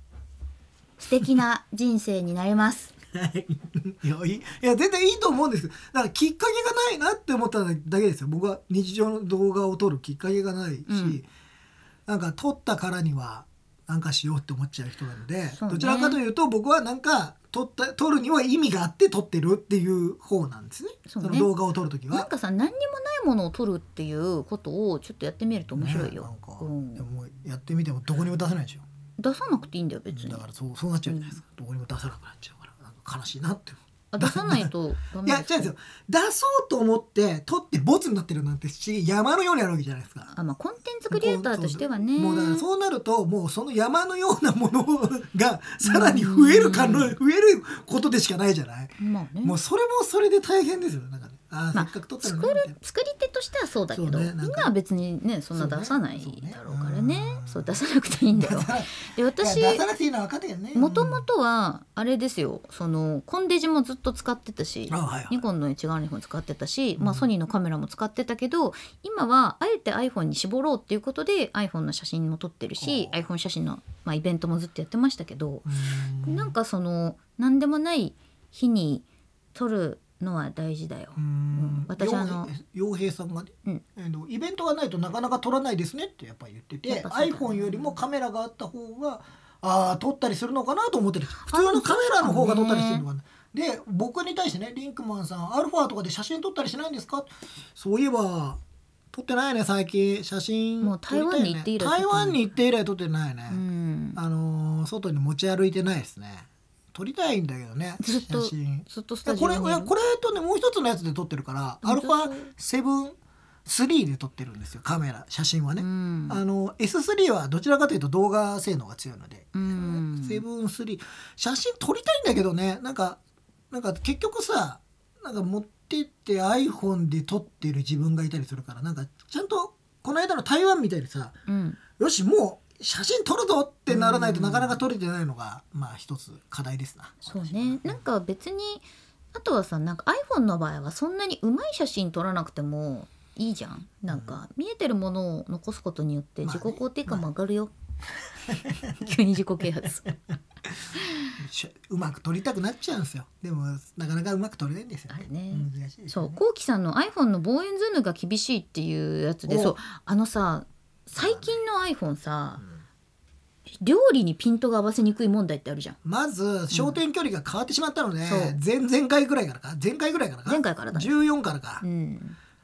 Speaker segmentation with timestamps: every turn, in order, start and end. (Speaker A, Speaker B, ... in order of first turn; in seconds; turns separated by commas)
Speaker A: 1.0-2.9, Speaker B: 3.1-11.3, Speaker A: 10.9-11.2, Speaker B: 12.1-22.3, Speaker A: 15.6-16.2, Speaker A: 21.1-21.5, Speaker A: 22.1-27.1, Speaker B: 25.8-28.9, Speaker A: 29.2-30.4, Speaker B: 30.1-34.7, Speaker A: 31.1-31.4, Speaker A: 34.1-35.7, Speaker B: 35.2-40.3, Speaker A: 40.3-42.6, Speaker B: 41.1-52.7, Speaker A: 45.8-47.1, Speaker A: 49.0-49.6, Speaker A: 51.7-59.9, Speaker B: 53.9-54.7, Speaker B: 55.5-57.8, Speaker B: 58.3-61.3, Speaker A: 60.7-75.7, Speaker B: 64.9-65.4, Speaker B: 67.0-67.3, Speaker B: 72.8-73.2, Speaker B: 75.7-76.5, Speaker A: 76.2-82.5, Speaker B: 81.2-98.6, Speaker A: 86.9-88.0, Speaker A: 91.5-93.0, Speaker B: 99.1-103.6, Speaker A: 100.8-102.6, Speaker A: 103.5-104.2, Speaker B: 104.2-123.2, Speaker A: 108.0-109.9, Speaker A: 111.8-112.5, Speaker A: 115.8-116.4, Speaker A: 119.5-120.4, Speaker B: 123.7-131.4, Speaker A: 131.5-131.8, Speaker B: 132.0-138.0, Speaker A: 133.9-134.8, Speaker A: 137.2-147.7, Speaker B: 144.1-144.4, Speaker B: 146.4-147.3, Speaker B: 148.5-149.1, Speaker A: 149.0-150.1, Speaker B: 150.7-156.4, Speaker A: 155.1-162.6, Speaker B: 159.5-159.8, Speaker B: 161.2-161.5, Speaker A: 163.8-166.0, Speaker B: 166.0-171.8, Speaker A: 166.7-167.0, Speaker A: 168.3-168.6, Speaker A: 170.5-171.1, Speaker A: 171.8-172.4